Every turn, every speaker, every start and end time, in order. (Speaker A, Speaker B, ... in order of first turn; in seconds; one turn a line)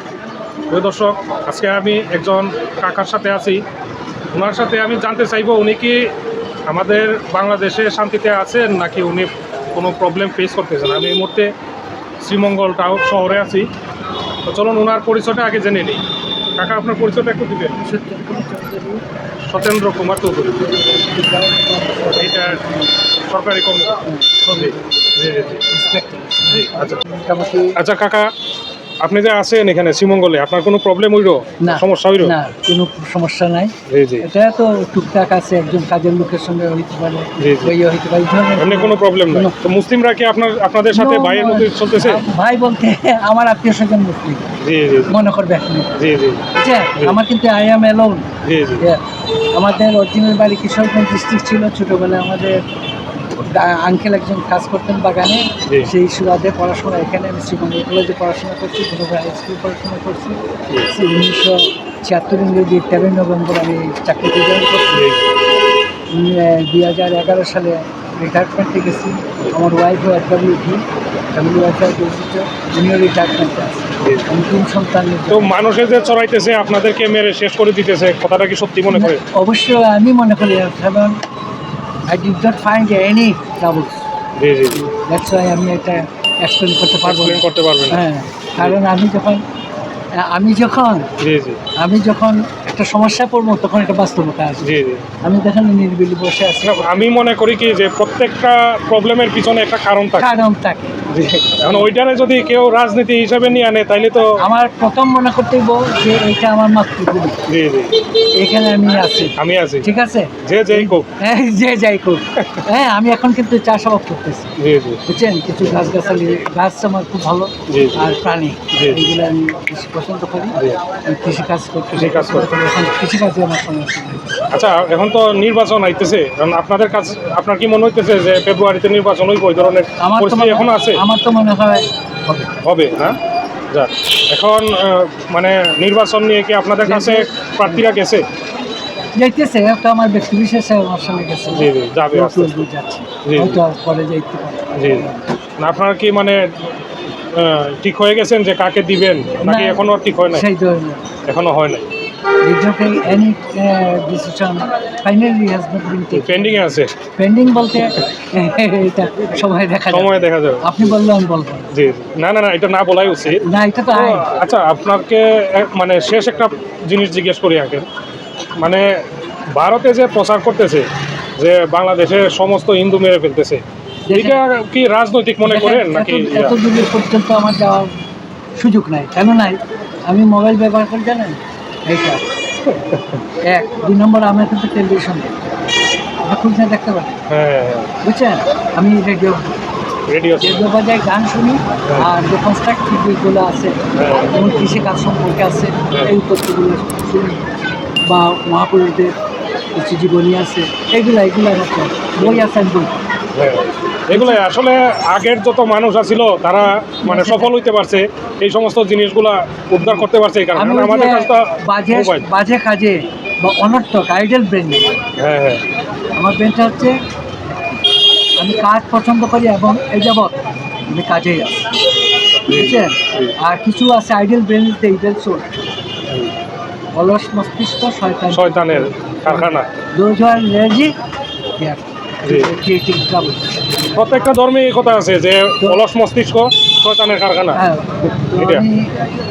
Speaker A: 0.7-3.6
Speaker A: 4.3-6.0
Speaker A: 6.7-11.5
Speaker A: 12.2-13.7
Speaker A: 14.5-16.0
Speaker A: 16.6-17.8
Speaker B: 17.8-19.0
Speaker A: 19.5-20.8
Speaker B: 20.8-22.9
Speaker A: 22.1-22.6
Speaker A: 23.3-25.6
Speaker B: 24.1-24.9
Speaker B: 25.7-27.8
Speaker A: 26.5-27.0
Speaker A: 27.8-28.3
Speaker A: 29.0-32.4
Speaker B: 31.6-39.6
Speaker A: 33.9-34.3
Speaker A: 37.4-37.7
Speaker A: 38.6-42.2
Speaker B: 40.9-44.5
Speaker A: 44.6-45.1
Speaker B: 45.1-46.0
Speaker A: 46.0-46.4
Speaker B: 46.5-49.0
Speaker A: 48.4-48.9
Speaker B: 49.5-52.6
Speaker B: 53.4-65.0
Speaker A: 64.9-65.3
Speaker B: 66.1-75.5
Speaker A: 74.0-74.3
Speaker A: 75.3-79.2
Speaker B: 78.9-81.2
Speaker B: 82.1-84.0
Speaker A: 84.4-84.8
Speaker B: 84.8-89.4
Speaker A: 87.0-88.0
Speaker B: 90.2-91.1
Speaker A: 91.2-91.6
Speaker B: 91.8-94.7
Speaker A: 94.6-95.1
Speaker B: 95.2-96.9
Speaker A: 96.6-100.3
Speaker B: 100.2-101.0
Speaker A: 101.1-104.3
Speaker B: 104.4-107.4
Speaker A: 107.5-107.9
Speaker B: 108.4-114.5
Speaker A: 109.4-109.9
Speaker A: 110.4-111.1
Speaker A: 112.4-112.6
Speaker A: 114.6-115.0
Speaker B: 115.1-124.4
Speaker A: 117.7-118.1
Speaker A: 118.7-119.1
Speaker A: 120.5-120.8
Speaker A: 121.9-122.5
Speaker A: 124.5-131.0
Speaker B: 130.0-132.5
Speaker A: 132.6-133.2
Speaker A: 133.7-138.3
Speaker B: 136.8-137.8
Speaker B: 139.2-145.2
Speaker A: 141.5-142.6
Speaker A: 143.2-143.6
Speaker A: 144.8-145.1
Speaker A: 145.6-146.4
Speaker A: 147.3-150.5
Speaker B: 149.4-151.1
Speaker A: 151.3-151.9
Speaker B: 152.4-161.7
Speaker A: 156.1-156.9
Speaker A: 159.9-160.9
Speaker A: 161.7-167.9
Speaker B: 163.4-164.3
Speaker A: 168.6-169.0
Speaker A: 169.5-176.6
Speaker B: 174.1-174.4
Speaker B: 175.4-177.9
Speaker B: 178.6-182.3
Speaker A: 182.7-183.2
Speaker B: 183.4-185.4
Speaker B: 186.2-187.3
Speaker A: 187.3-187.9
Speaker B: 188.0-189.6
Speaker A: 190.1-190.7
Speaker B: 190.4-193.8
Speaker A: 191.8-192.1
Speaker A: 193.9-194.4
Speaker B: 194.3-199.2
Speaker B: 199.8-203.0
Speaker A: 202.2-202.5
Speaker A: 203.3-212.3
Speaker B: 204.1-204.4
Speaker B: 207.0-207.5
Speaker B: 209.8-214.9
Speaker A: 215.2-215.6
Speaker B: 216.2-217.0
Speaker B: 218.4-221.7
Speaker A: 222.5-223.3
Speaker B: 222.5-225.5
Speaker A: 226.1-226.3
Speaker B: 226.9-230.9
Speaker A: 228.3-229.7
Speaker B: 231.6-233.4
Speaker A: 232.2-232.6
Speaker A: 233.9-237.6
Speaker B: 237.5-238.9
Speaker A: 238.3-238.7